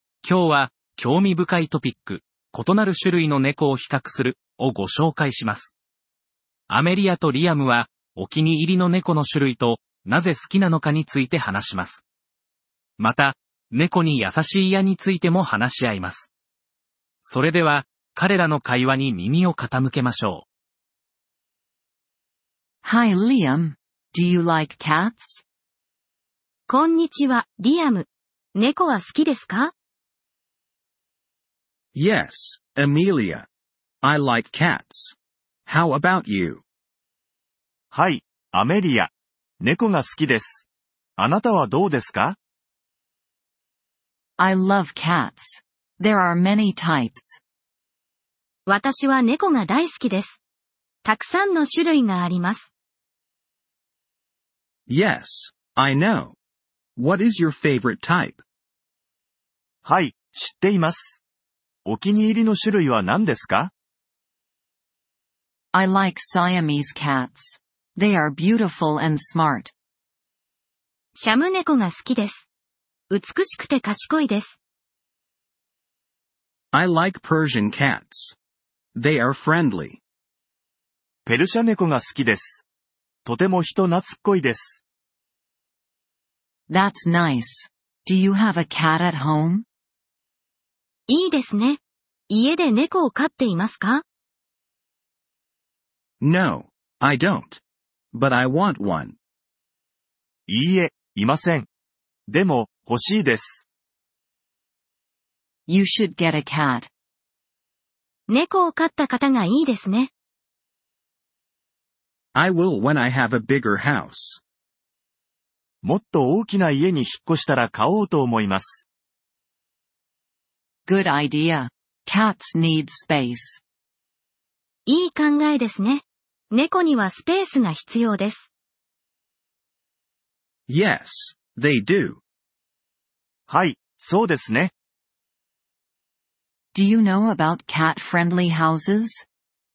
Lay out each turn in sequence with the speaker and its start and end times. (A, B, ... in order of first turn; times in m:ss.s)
0:00.2-0:05.7 A
0:06.7-0:12.0 A
0:13.0-0:16.3 A
0:17.2-0:20.5 A
0:22.8-0:25.4 B
0:26.7-0:29.7 C
0:31.9-0:33.5 D
0:34.0-0:35.2 D
0:35.7-0:36.6 D
0:37.9-0:42.4 E
0:44.4-0:47.4 B
0:48.7-0:50.4 C
0:51.0-0:52.7 C
0:54.9-0:56.4 D
0:57.0-0:58.4 D
0:59.8-1:01.2 E
1:01.9-1:03.7 E
1:05.7-1:09.7 B
1:11.2-1:12.5 C
1:13.1-1:14.6 C
1:16.7-1:18.4 D
1:19.0-1:20.0 D
1:21.3-1:22.6 E
1:23.3-1:24.8 E
1:26.7-1:29.7 B
1:31.1-1:34.0 C
1:36.2-1:37.6 D
1:38.1-1:39.2 D
1:40.5-1:41.7 E
1:42.3-1:43.7 E
1:45.7-1:46.9 B
1:48.3-1:50.1 C
1:52.3-1:54.4 D
1:55.8-1:58.9 E
2:00.9-2:03.6 B
2:04.9-2:08.5 C
2:10.7-2:12.2 D
2:13.5-2:14.7 E
2:16.7-2:19.3 B